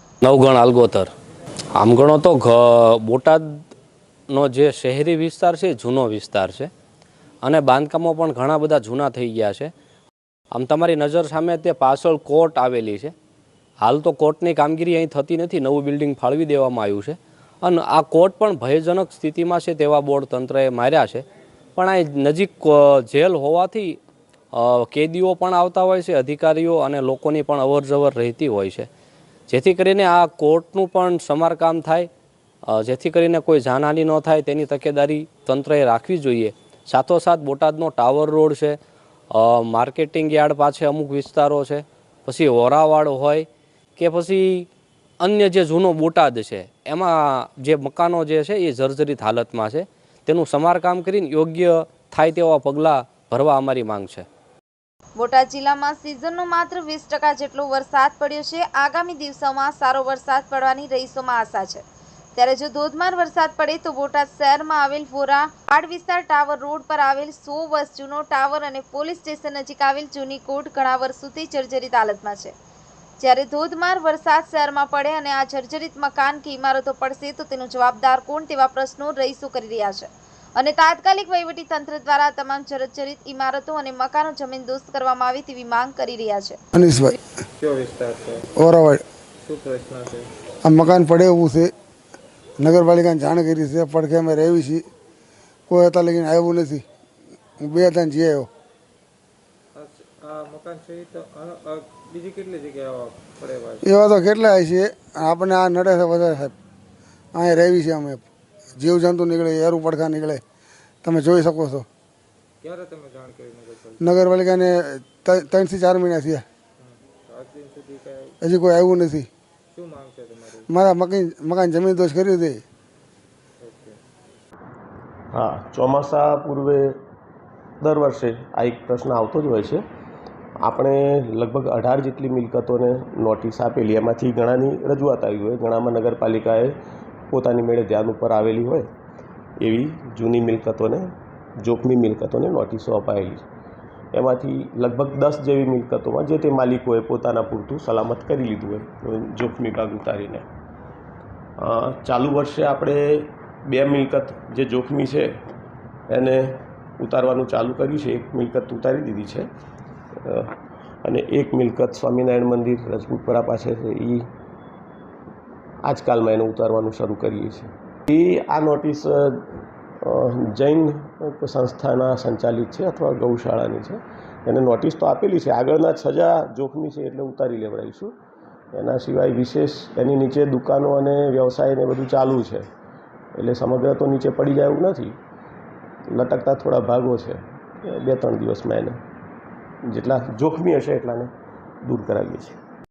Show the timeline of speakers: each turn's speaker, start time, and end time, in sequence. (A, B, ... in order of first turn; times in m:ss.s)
0:00.2-0:01.1 A
0:01.8-0:03.6 A
0:04.3-0:06.7 A
0:07.4-0:09.7 A
0:10.5-0:13.1 A
0:13.8-0:21.2 A
0:21.8-0:24.0 A
0:24.5-0:28.9 A
0:29.5-0:32.1 A
0:32.7-0:38.8 A
0:39.3-0:44.7 A
0:45.2-0:54.3 A
0:55.2-1:01.8 B
1:02.4-1:12.5 B
1:13.2-1:26.6 B
1:26.7-1:27.2 C
1:27.6-1:28.5 D
1:28.6-1:29.0 C
1:29.4-1:30.3 D
1:30.6-1:31.7 C
1:32.6-1:34.8 C
1:35.7-1:36.8 C
1:37.6-1:38.5 C
1:39.8-1:43.8 D
1:43.8-1:46.6 C
1:47.3-1:50.4 C
1:51.0-1:51.9 C
1:52.6-1:54.0 D
1:54.0-1:56.4 C
1:56.8-1:58.4 D
1:58.4-1:59.3 C
1:59.7-2:00.7 D
2:00.7-2:02.6 C
2:03.6-2:04.0 D
2:05.3-2:07.0 E
2:07.8-2:09.8 E
2:10.6-2:16.8 E
2:17.3-2:18.9 E
2:19.6-2:23.4 E
2:24.1-2:30.5 E
2:31.6-2:35.3 E
2:36.1-2:39.5 E
2:40.2-2:44.3 E
2:45.8-2:49.5 E
2:50.0-2:58.2 E
2:58.7-3:02.7 E
3:03.4-3:05.2 E
3:06.1-3:09.0 E
3:09.8-3:11.3 E
3:11.8-3:12.6 E